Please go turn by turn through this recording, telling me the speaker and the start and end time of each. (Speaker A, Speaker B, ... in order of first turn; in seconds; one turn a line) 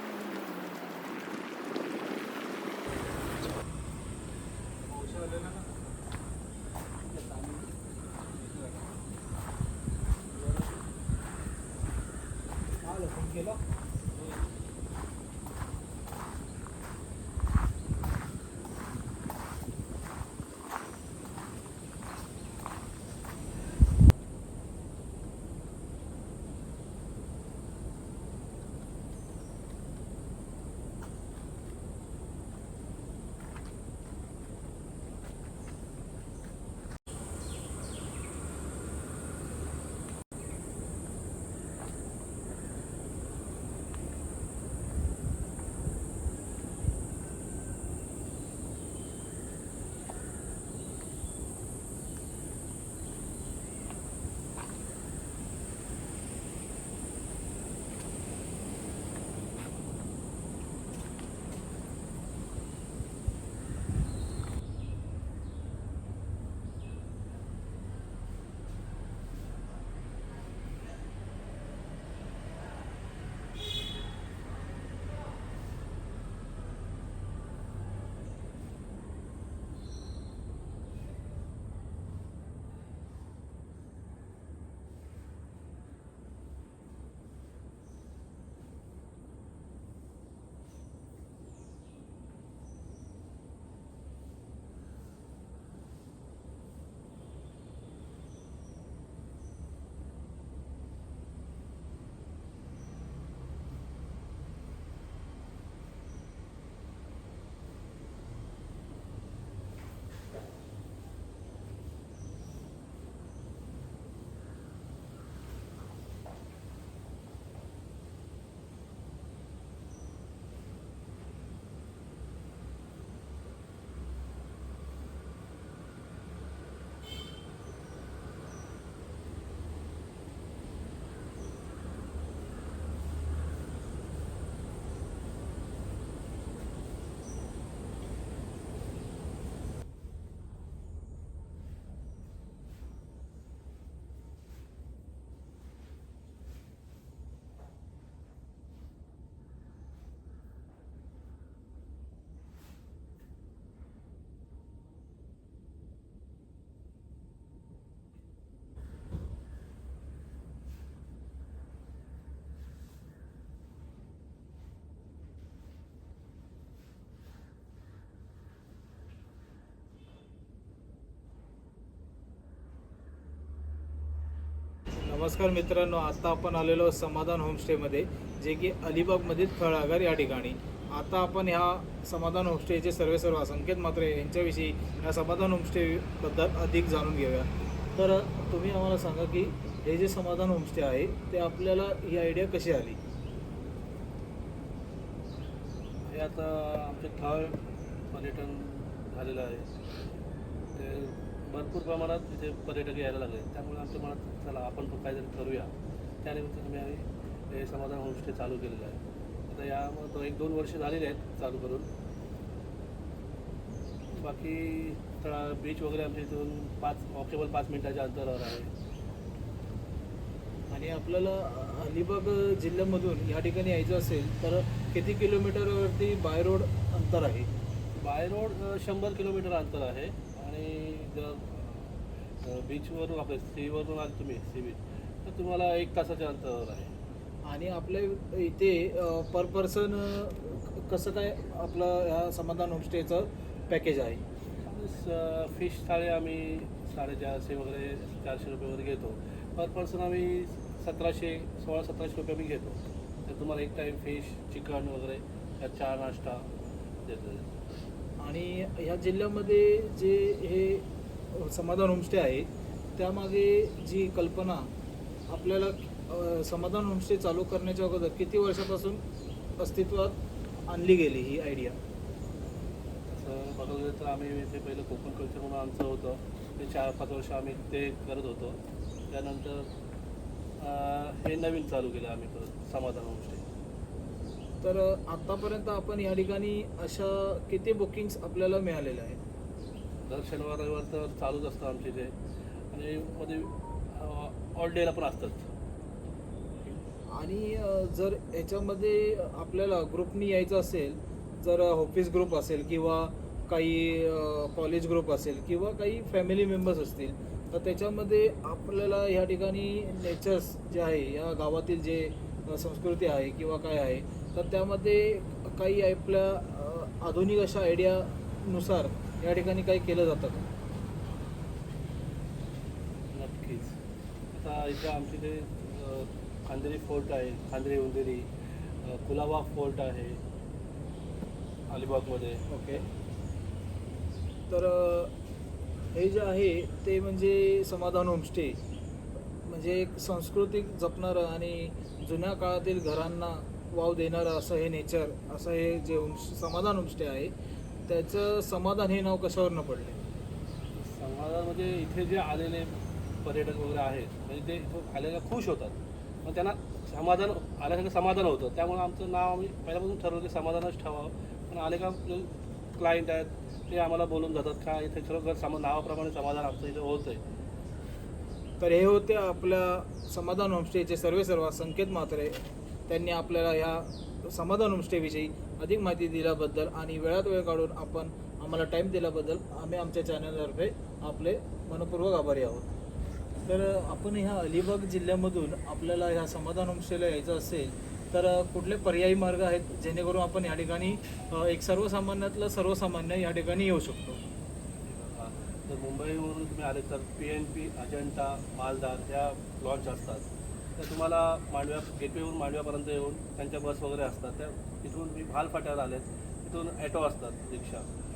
Speaker A: 4.8-5.7
Speaker A: 7.1-7.7
Speaker B: 10.3-10.7
Speaker A: 12.8-13.6
Speaker A: 174.9-193.0
Speaker B: 196.1-200.2
Speaker B: 200.7-211.9
Speaker B: 214.1-218.7
Speaker A: 220.7-227.5
Speaker B: 227.9-236.9
Speaker A: 237.4-244.2
Speaker B: 244.6-256.5
Speaker B: 257.1-257.5
Speaker A: 258.2-264.7
Speaker A: 265.3-269.0
Speaker A: 269.6-271.8
Speaker B: 273.1-279.7
Speaker B: 280.6-283.4
Speaker A: 284.6-289.2
Speaker B: 290.1-292.1
Speaker B: 292.7-295.5
Speaker A: 297.1-320.5
Speaker B: 323.1-323.8
Speaker B: 324.3-330.2
Speaker B: 331.7-332.4
Speaker A: 332.5-332.9
Speaker A: 334.5-335.1
Speaker A: 335.9-338.6
Speaker A: 339.4-347.3
Speaker A: 347.9-350.0
Speaker B: 350.7-367.2
Speaker A: 368.6-382.7
Speaker A: 383.5-394.2
Speaker B: 394.9-407.9